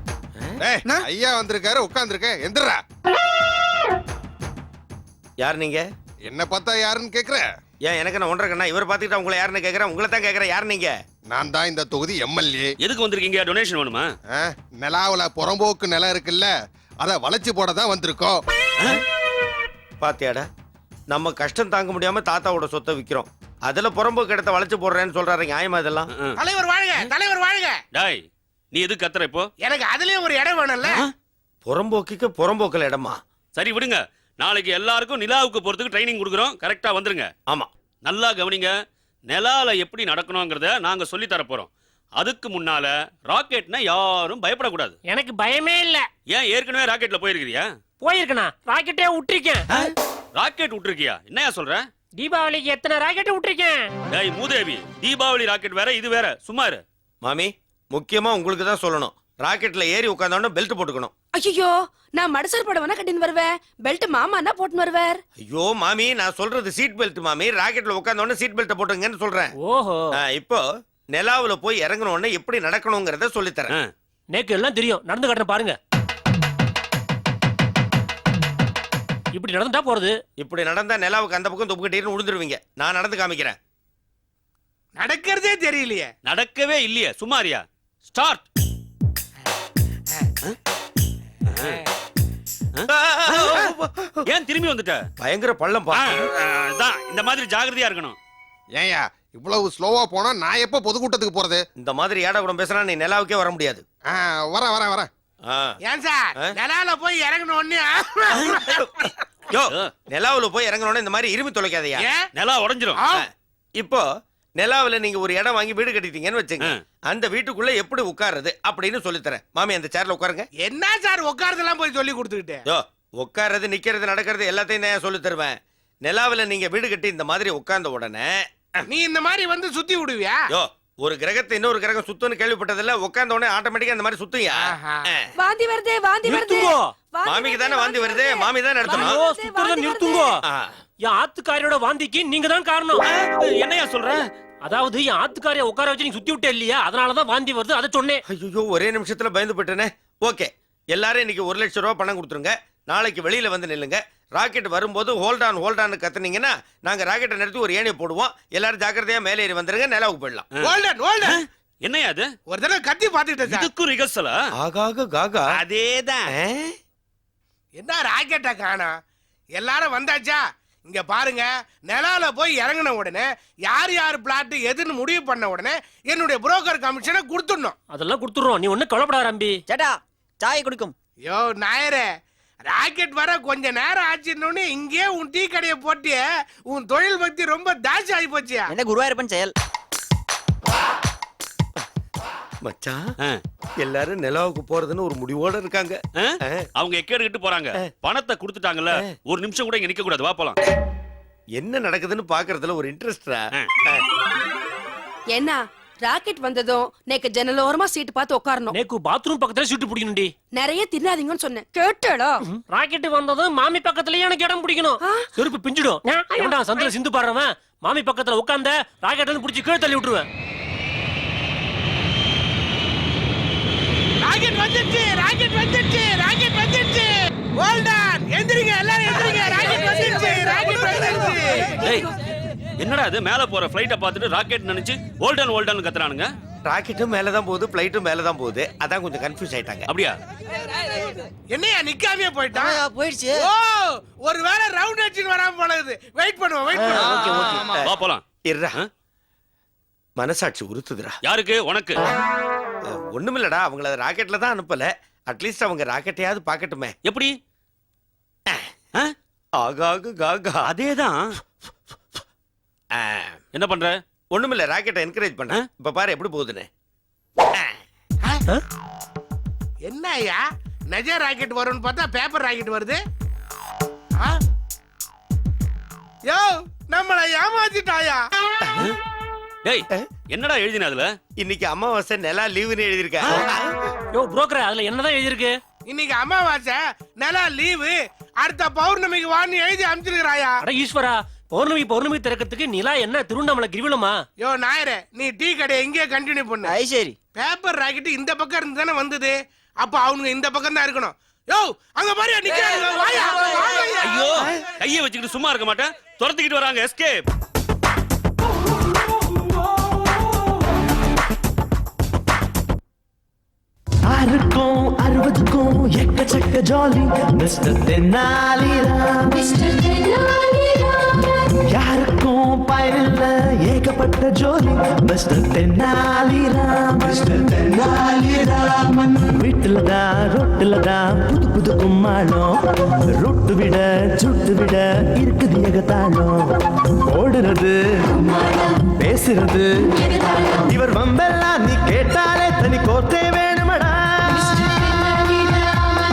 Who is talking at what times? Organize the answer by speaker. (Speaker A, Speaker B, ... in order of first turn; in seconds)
Speaker A: 0.6-2.8, 6.2-7.4, 11.3-12.7, 14.3-18.4, 98.7-101.6, 104.1-105.1
Speaker B: 5.4-5.8, 7.8-10.9, 20.0-20.5, 21.1-26.1, 31.6-33.2, 57.2-61.1, 65.4-69.5, 70.2-70.6, 71.1-73.7, 80.4-83.6, 92.9-94.3, 95.2-96.2, 101.8-103.8, 105.5-105.8, 108.4-112.0, 113.2-114.0, 114.6-120.5, 122.7-128.4, 130.5-135.2, 137.2-139.2, 148.3-160.5, 164.6-165.6, 166.3-166.7, 192.6-193.0, 193.8-196.6, 201.6-204.1, 236.7-239.9, 248.4-248.8, 250.2-251.2, 252.9-256.9, 259.6-260.7, 262.9-263.4, 264.3-266.7, 278.7-278.9, 281.4-283.5
Speaker C: 12.8-14.0, 26.1-26.4, 27.9-29.5, 33.5-37.3, 38.0-38.7, 39.3-45.0, 46.3-47.7, 49.8-51.8, 54.1-56.8, 86.2-88.4, 91.5-91.8, 92.8-93.7, 94.2-95.0, 95.9-98.2, 112.3-113.0, 143.1-144.2, 161.3-162.3, 163.4-164.3, 196.2-200.6, 231.8-232.1, 232.8-236.3, 239.9-240.2, 247.2-248.2, 251.2-252.0, 257.0-257.3, 260.6-261.2, 263.5-264.0, 279.6-281.1, 304.0-307.2
Speaker D: 26.4-27.8, 29.6-31.0, 85.0-86.1, 105.8-108.5, 112.0-112.3, 113.0-113.2, 120.6-122.6, 128.9-130.4, 134.6-135.0, 160.6-161.4, 162.5-163.7, 165.7-166.2, 167.7-169.0, 169.5-177.8, 181.2-182.1, 182.7-188.7, 224.2-231.8, 241.5-242.8, 243.3-247.6, 269.8-273.0, 276.2-278.2, 285.9-290.6, 294.4-296.7, 297.4-304.4
Speaker E: 45.0-46.1, 48.0-49.7, 52.2-53.9, 69.6-70.1, 74.3-75.8, 79.3-80.2, 136.2-136.9, 138.8-140.4, 141.0-143.0, 144.6-148.2, 177.9-179.6, 208.7-210.3, 212.5-220.2, 284.1-285.6, 290.6-294.2
Speaker F: 61.3-65.2, 135.4-140.3, 205.3-208.7, 210.5-212.4, 215.0-215.3, 216.3-216.9
Speaker G: 179.7-180.9, 188.7-189.5, 242.5-243.5, 246.7-247.7, 296.6-297.1
Speaker H: 314.1-319.7, 321.6-344.7